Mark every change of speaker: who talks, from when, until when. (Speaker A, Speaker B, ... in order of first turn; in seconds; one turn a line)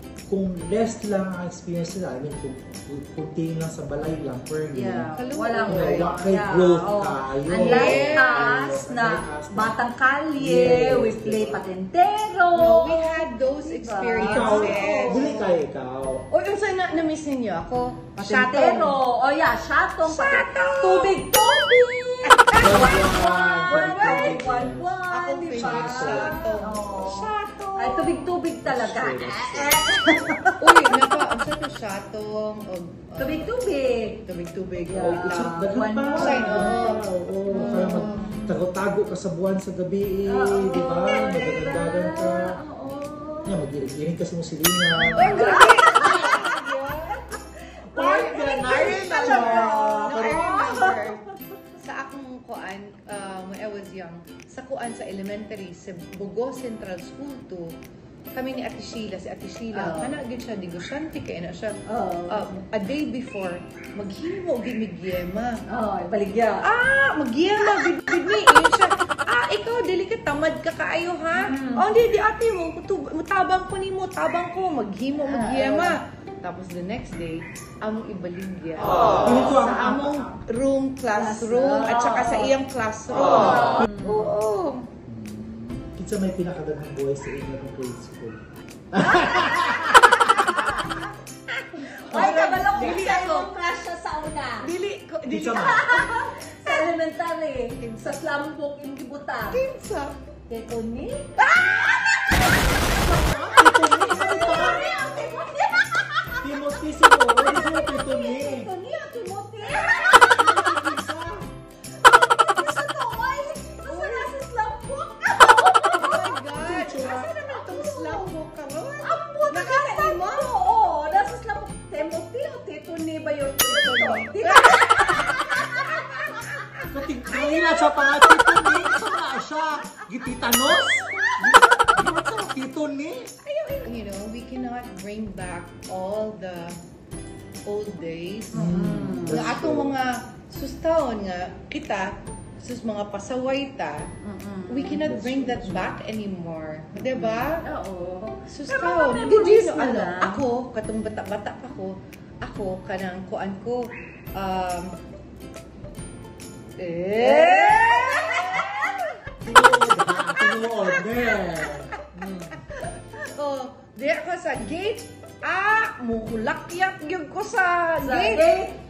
Speaker A: 0.3-9.8
Speaker B: 4.7-15.5
Speaker C: 5.2-6.1
Speaker C: 7.5-8.6
Speaker A: 10.4-11.6
Speaker C: 12.5-15.6
Speaker A: 14.2-16.3
Speaker C: 16.3-19.0
Speaker B: 18.2-31.1
Speaker C: 20.0-21.2
Speaker C: 22.3-23.1
Speaker A: 22.6-25.0
Speaker C: 23.8-24.3
Speaker C: 25.1-28.3
Speaker A: 25.5-26.4
Speaker A: 28.6-30.3
Speaker C: 30.6-33.5
Speaker B: 33.2-34.2
Speaker C: 34.2-35.5
Speaker B: 34.9-38.6
Speaker A: 35.0-42.6
Speaker C: 36.1-38.4
Speaker B: 40.3-43.6
Speaker A: 43.5-46.5
Speaker B: 45.0-51.1
Speaker C: 45.1-47.2
Speaker A: 47.9-51.0
Speaker C: 48.0-51.2
Speaker C: 51.8-57.7
Speaker C: 58.3-61.7
Speaker B: 59.7-60.2
Speaker B: 61.9-62.4
Speaker C: 62.3-65.6
Speaker B: 65.7-66.7
Speaker C: 66.6-84.9
Speaker B: 71.3-71.9
Speaker B: 75.2-76.0
Speaker A: 79.2-80.4
Speaker B: 81.1-82.5
Speaker B: 83.3-84.4
Speaker A: 85.0-90.7
Speaker B: 89.1-90.8
Speaker C: 90.3-93.5
Speaker B: 91.8-94.7
Speaker C: 94.6-96.9
Speaker A: 95.3-95.8
Speaker B: 95.5-99.7
Speaker C: 99.5-100.2
Speaker B: 100.5-110.8
Speaker C: 101.4-102.0
Speaker A: 103.0-104.9
Speaker A: 106.4-108.7
Speaker C: 109.7-110.9
Speaker A: 110.2-111.5
Speaker B: 112.0-118.3
Speaker C: 113.8-114.3
Speaker C: 115.3-120.5
Speaker A: 116.6-117.3
Speaker B: 119.0-126.0
Speaker C: 123.6-127.0
Speaker A: 126.9-133.3
Speaker B: 127.4-129.2
Speaker B: 130.7-132.1
Speaker C: 133.4-136.8
Speaker C: 137.7-144.1
Speaker B: 138.5-139.5
Speaker A: 138.5-140.0
Speaker B: 144.2-145.1
Speaker C: 144.7-147.7
Speaker A: 145.0-146.0
Speaker B: 146.9-150.4
Speaker C: 148.5-155.0
Speaker C: 156.8-158.7
Speaker B: 157.1-159.2
Speaker A: 159.4-162.6
Speaker B: 159.9-161.1
Speaker C: 162.8-168.6
Speaker B: 168.0-168.8